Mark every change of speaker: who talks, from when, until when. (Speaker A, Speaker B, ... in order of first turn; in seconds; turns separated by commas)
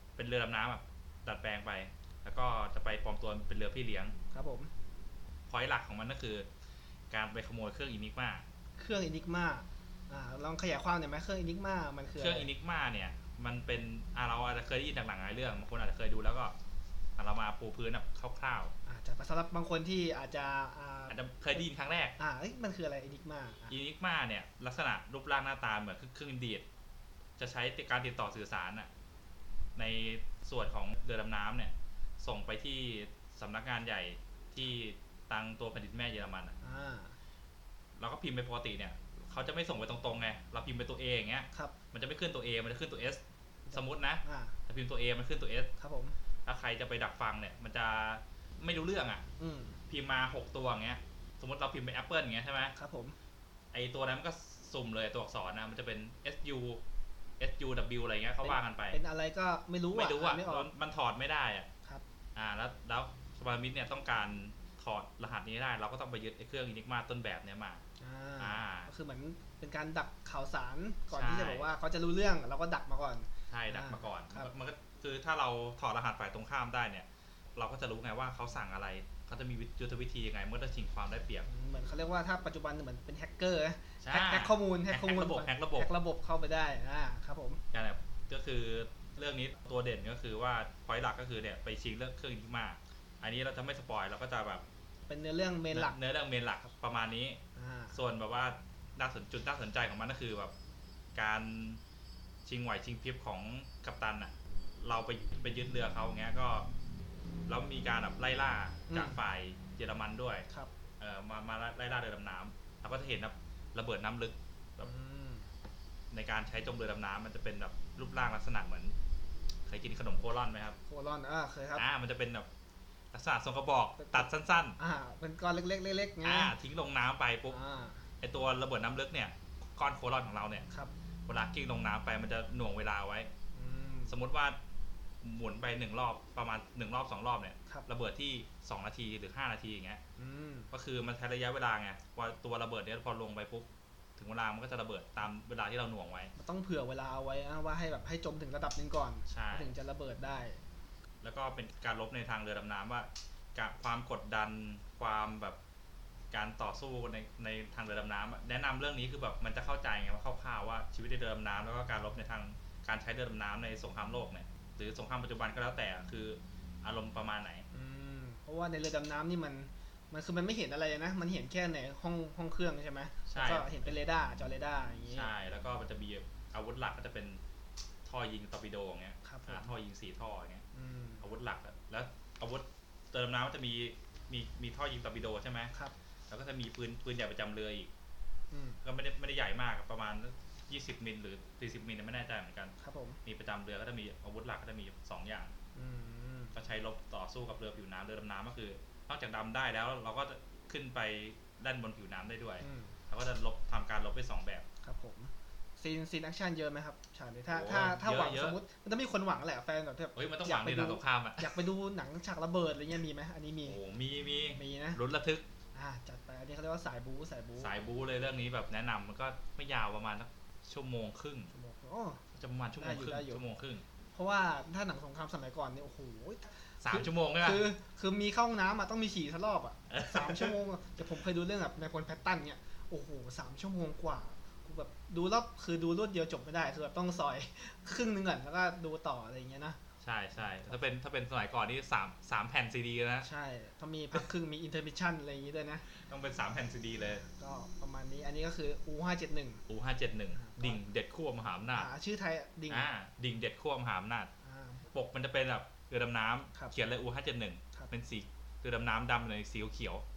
Speaker A: 0.2-4.2, Speaker B: 4.3-4.7, Speaker A: 5.5-6.5, Speaker A: 7.1-8.4, Speaker B: 8.8-12.5, Speaker A: 12.1-16.5, Speaker A: 17.2-18.7, Speaker B: 18.9-21.6, Speaker A: 21.1-22.1, Speaker B: 22.2-23.7, Speaker A: 23.7-26.6, Speaker A: 27.4-28.9, Speaker A: 29.8-36.5, Speaker B: 36.6-37.1, Speaker A: 38.0-43.2, Speaker B: 43.6-44.5, Speaker A: 43.7-45.7, Speaker B: 45.8-46.2, Speaker A: 46.5-49.2, Speaker B: 49.4-49.8, Speaker A: 49.9-52.7, Speaker B: 52.8-53.2, Speaker A: 53.7-56.8, Speaker A: 57.4-59.0, Speaker B: 58.4-60.7, Speaker A: 59.9-61.7, Speaker A: 62.4-67.8, Speaker B: 68.0-74.5, Speaker A: 68.4-68.9, Speaker A: 71.1-71.7, Speaker A: 73.5-81.5, Speaker B: 81.5-87.6, Speaker A: 84.0-85.9, Speaker A: 87.7-94.6, Speaker B: 95.1-96.0, Speaker A: 95.7-97.4, Speaker B: 97.5-98.0, Speaker A: 97.9-100.5, Speaker A: 101.1-101.8, Speaker A: 102.4-106.7, Speaker A: 107.5-110.5, Speaker B: 108.9-109.2, Speaker A: 111.0-114.9, Speaker B: 114.8-115.5, Speaker A: 116.1-118.9, Speaker A: 119.7-120.8, Speaker B: 120.9-121.8, Speaker A: 121.8-122.5, Speaker A: 123.1-124.8, Speaker B: 124.0-126.5, Speaker A: 126.2-127.6, Speaker B: 127.5-128.1, Speaker A: 128.2-130.7, Speaker A: 131.3-133.3, Speaker B: 133.5-134.2, Speaker A: 134.1-134.6, Speaker A: 135.2-140.0, Speaker B: 140.2-140.7, Speaker A: 140.7-146.3, Speaker B: 146.3-150.6, Speaker A: 149.3-149.7, Speaker A: 151.2-155.6, Speaker A: 156.3-167.6, Speaker B: 167.7-175.3, Speaker A: 173.3-173.7, Speaker A: 175.1-177.4, Speaker A: 178.0-180.6, Speaker B: 179.2-179.7, Speaker B: 180.7-181.2, Speaker A: 181.2-185.7, Speaker A: 186.3-187.9, Speaker B: 188.5-188.8, Speaker A: 188.8-195.5, Speaker B: 192.8-193.2, Speaker B: 195.7-196.5, Speaker A: 196.5-204.7, Speaker B: 202.6-202.9, Speaker B: 204.8-213.8, Speaker A: 207.5-208.6, Speaker A: 210.2-211.6, Speaker A: 213.6-215.4, Speaker B: 214.6-215.0, Speaker B: 215.7-217.7, Speaker A: 217.6-221.5, Speaker B: 221.5-222.2, Speaker A: 222.3-223.8, Speaker B: 222.8-223.4, Speaker B: 224.1-239.8, Speaker A: 226.8-227.7, Speaker A: 229.9-230.6, Speaker A: 240.0-243.3, Speaker B: 240.5-240.8, Speaker B: 243.2-245.8, Speaker A: 245.9-247.2, Speaker B: 247.2-249.6, Speaker A: 249.7-251.9, Speaker B: 250.3-250.8, Speaker B: 251.7-252.9, Speaker A: 252.7-254.3, Speaker B: 254.4-254.9, Speaker A: 254.9-260.0